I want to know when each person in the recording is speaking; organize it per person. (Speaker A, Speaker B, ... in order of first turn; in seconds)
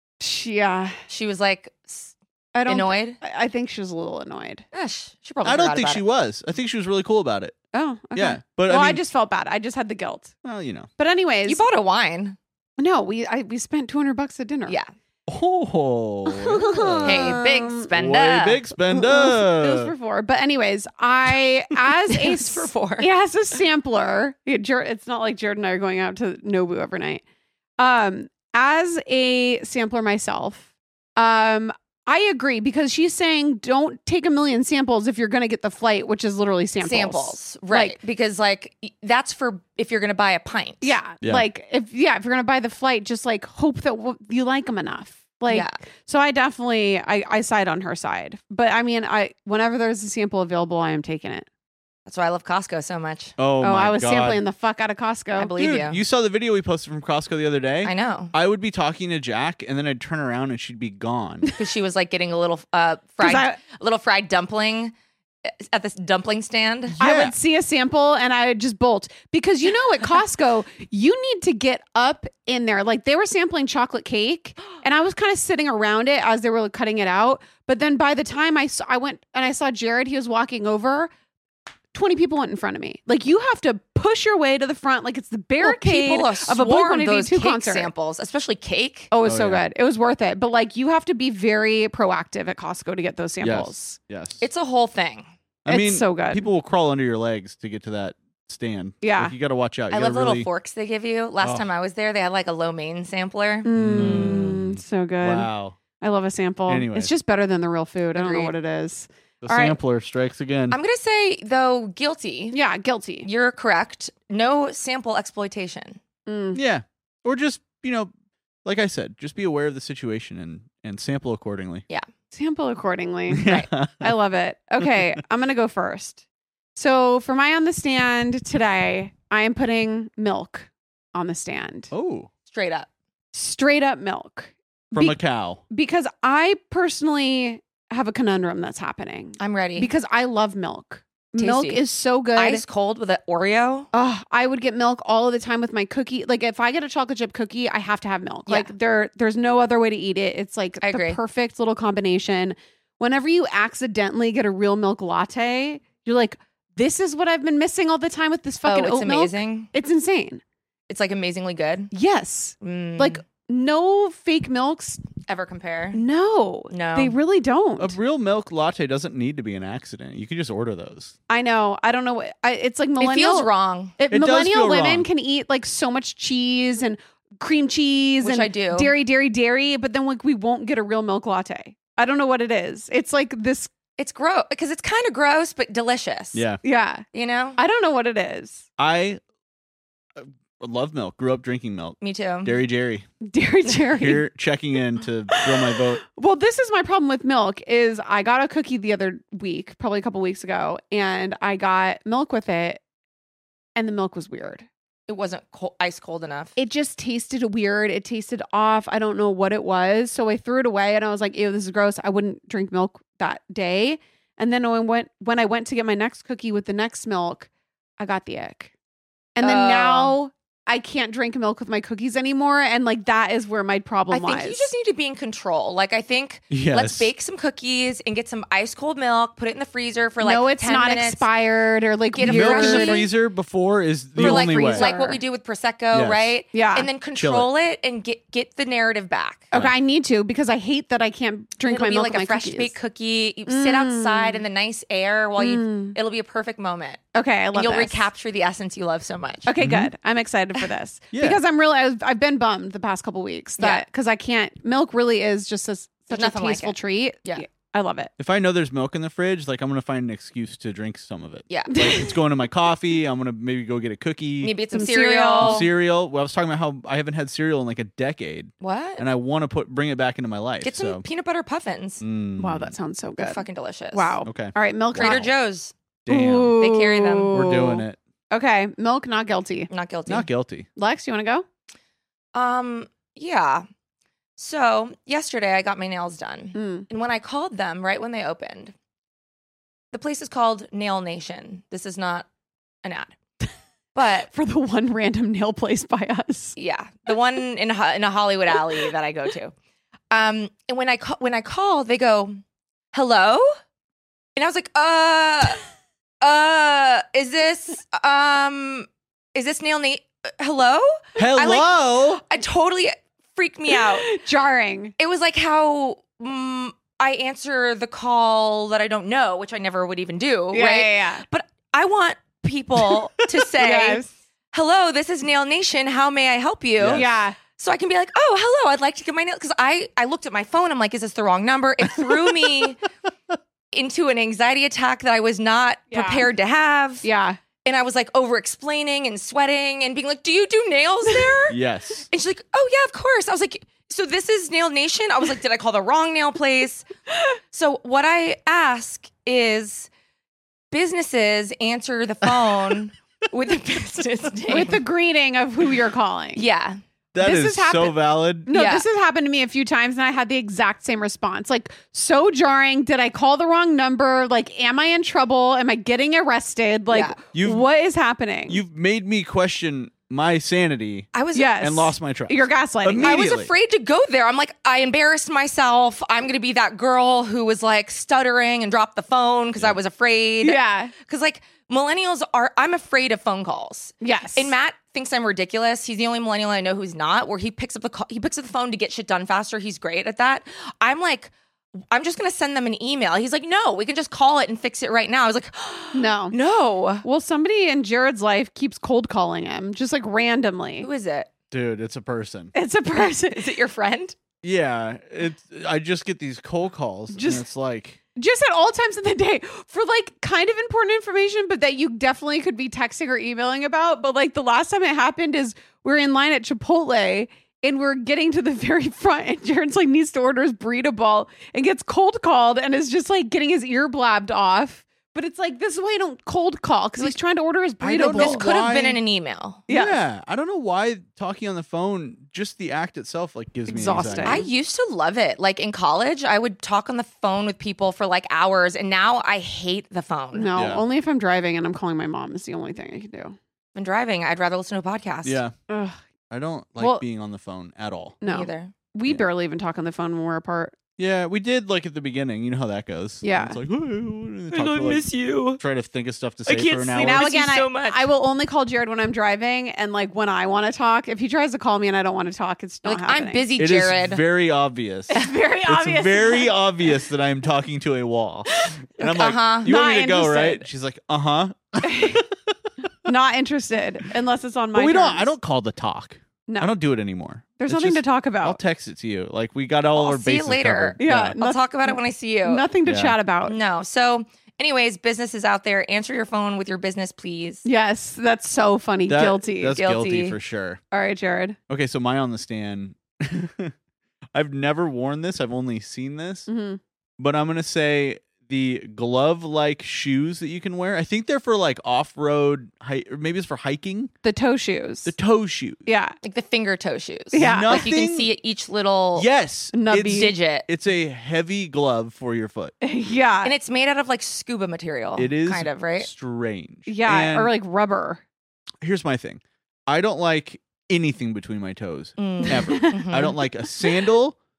Speaker A: 0.2-1.0, 2.5-4.6, 7.7-10.3, 11.0-11.6, 12.8-14.8, 16.3-17.9, 18.9-27.2, 27.8-30.6, 31.2-38.0, 40.8-51.5, 53.6-55.5, 63.2-63.6, 67.0-81.1, 81.9-87.9, 89.1-94.0, 95.7-96.5, 99.0-99.3, 103.6-105.5, 106.0-109.8, 112.5-113.3, 116.3-116.6, 122.3-126.2, 126.8-131.9, 133.3-135.2, 135.7-142.6, 143.9-160.4, 161.9-165.0, 165.9-168.0, 171.3-183.7, 186.6-187.0, 187.6-188.6, 193.2-194.2, 195.3-202.8, 203.8-204.7, 206.6-218.7, 219.4-224.7, 230.2-233.1, 234.2-235.2, 236.5-236.9, 239.5-242.7, 243.5-244.4, 245.4-246.0, 247.2-248.1, 249.4-258.1, 261.7-262.1, 264.7-265.7, 272.4-275.3, 276.1-279.7, 280.8-281.5, 286.5-286.9, 294.3-296.6, 313.7-314.9, 320.5-321.2, 323.6-324.1, 326.9-327.4, 335.9-336.3, 337.0-337.4, 354.5-356.4, 357.2-368.6, 371.3-373.2, 380.4-380.9, 384.0-384.5, 395.9-396.4, 397.0-400.9, 402.5-403.5, 407.1-407.4, 408.1-428.5, 429.7-430.0, 433.7-434.5, 440.3-443.4, 445.7-446.0, 446.8-447.0, 448.2-450.8, 453.2-453.6, 457.0-463.4, 465.1-466.5, 469.6-470.7, 471.8-472.2, 473.1-475.3, 476.5-476.7, 477.6-478.6, 481.0-483.6, 487.6-490.0, 490.9-491.6, 496.5-496.8, 504.2-505.1, 505.9-506.2, 507.3-507.8, 509.7-510.3, 512.8-513.5, 516.9-518.2, 522.7-523.0
Speaker B: 1.1-2.1, 2.7-3.2, 4.7-6.0, 11.5-12.4, 17.0-18.6, 22.1-23.1, 36.8-41.0, 45.5-45.8, 52.1-53.4, 55.4-56.0, 57.8-58.3, 61.6-64.9, 65.6-67.0, 85.6-89.1, 94.4-95.3, 99.9-104.6, 108.1-108.5, 110.7-112.6, 113.2-116.0, 132.5-132.9, 139.4-139.9, 141.4-141.8, 142.3-143.9, 150.8-151.2, 158.7-159.7, 160.9-161.9, 162.6-163.2, 165.3-166.0, 166.7-167.2, 173.0-174.0, 178.2-178.9, 184.0-186.4, 187.1-187.6, 192.0-192.6, 205.1-206.6, 219.4-220.1, 224.1-231.3, 232.1-233.1, 234.2-239.5, 241.6-249.5, 256.1-257.4, 261.5-261.8, 264.4-265.7, 268.6-269.1, 270.6-272.0, 273.2-274.1, 274.9-275.7, 276.6-277.4, 279.7-280.3, 282.4-283.7, 284.4-288.7, 289.9-292.3, 292.9-293.1, 293.9-294.3, 296.6-299.5, 300.1-302.4, 302.9-303.5, 304.4-305.6, 306.2-314.2, 315.0-332.8, 333.7-337.1, 337.6-341.6, 342.1-346.9, 347.5-349.9, 350.7-354.8, 356.4-356.8, 358.5-358.9, 366.9-367.2, 371.1-371.7, 373.0-391.3, 391.9-397.1, 400.8-401.3, 403.0-404.2, 428.1-429.6, 434.2-440.5, 443.8-445.4, 448.3-448.7, 454.5-455.6, 456.5-458.1, 462.9-464.2, 469.0-469.7, 479.9-482.7, 483.4-487.6, 489.8-490.3, 506.2-509.3, 509.9-510.7, 513.4-516.1, 522.2-523.4
Speaker C: 5.4-7.6, 8.2-9.0, 10.4-10.9, 15.3-17.3, 17.9-19.9, 53.4-54.4, 55.6-61.5, 66.9-67.3, 89.2-89.6, 93.4-94.4, 95.7-100.5, 103.8-105.8, 106.7-107.1, 109.4-110.8, 116.5-118.1, 118.7-121.8, 123.3-124.2, 131.9-132.3, 134.9-135.6, 167.8-171.1, 174.1-175.1, 186.3-186.6, 188.8-189.2, 190.2-193.1, 194.0-196.0, 226.5-227.1, 232.2-234.9, 235.9-236.3, 237.2-237.5, 249.6-249.9, 251.1-251.4, 258.2-264.5, 265.4-271.0, 272.0-272.7, 274.2-275.3, 276.1-276.6, 277.3-278.0, 280.1-280.7, 311.2-312.2, 326.8-327.1, 332.0-332.6, 341.5-342.1, 357.1-358.5, 367.3-367.6, 368.5-371.1, 371.6-373.5, 401.5-402.5, 404.4-408.0, 427.8-429.0, 429.7-434.4, 440.6-440.8, 445.2-445.6, 446.3-448.2, 451.0-457.3, 463.6-472.6, 474.7-481.4, 482.9-483.1, 489.1-490.8, 491.7-493.7, 494.3-496.5, 497.2-504.1, 505.1-505.8, 507.4-508.3, 509.2-512.7, 515.2-517.5, 518.8-524.4